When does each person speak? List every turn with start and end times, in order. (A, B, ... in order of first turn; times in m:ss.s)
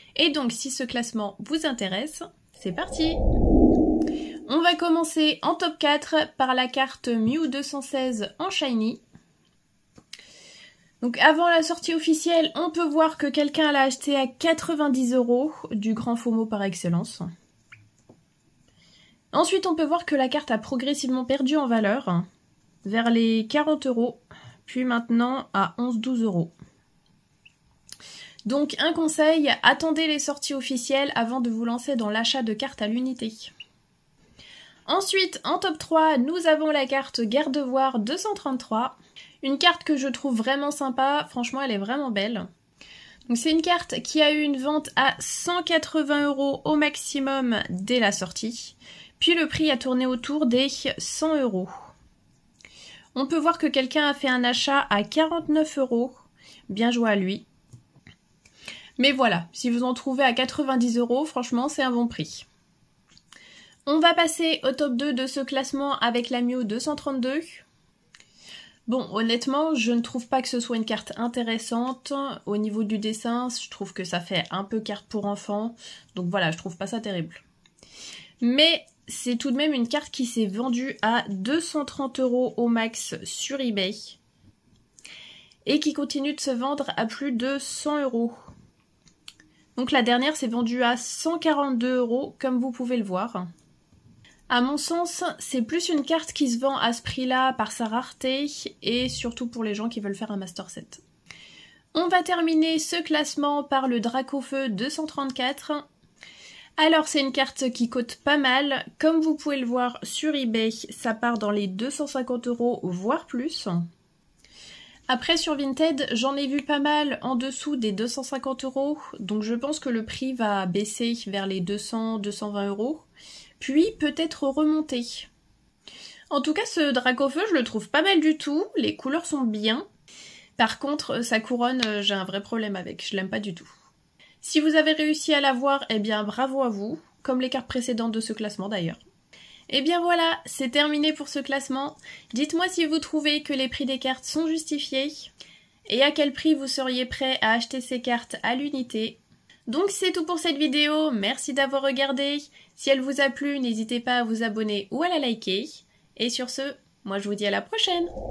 0:00.2-0:03.2 A
0:04.5-0:09.0 A
0:11.0-0:17.3 A
0:19.3-0:22.3 A
0:22.8-0:26.5 A
0:28.5-0:33.5 A
0:34.9-0:42.5 A
0:43.3-0:51.7 A
0:53.2-0:57.4 A
0:59.0-1:02.5 A
1:03.9-1:07.6 A
1:08.9-1:17.4 A
1:18.4-1:24.2 A
1:25.7-1:28.4 A
1:29.8-1:33.5 A
1:34.5-1:41.0 A
1:41.9-1:45.8 A
1:46.8-1:53.9 A
1:55.1-2:03.1 A
2:03.6-2:05.3 A
2:06.3-2:09.8 A
2:10.6-2:13.7 A
2:14.4-2:19.0 A
2:19.7-2:25.3 A
2:25.9-2:38.1 A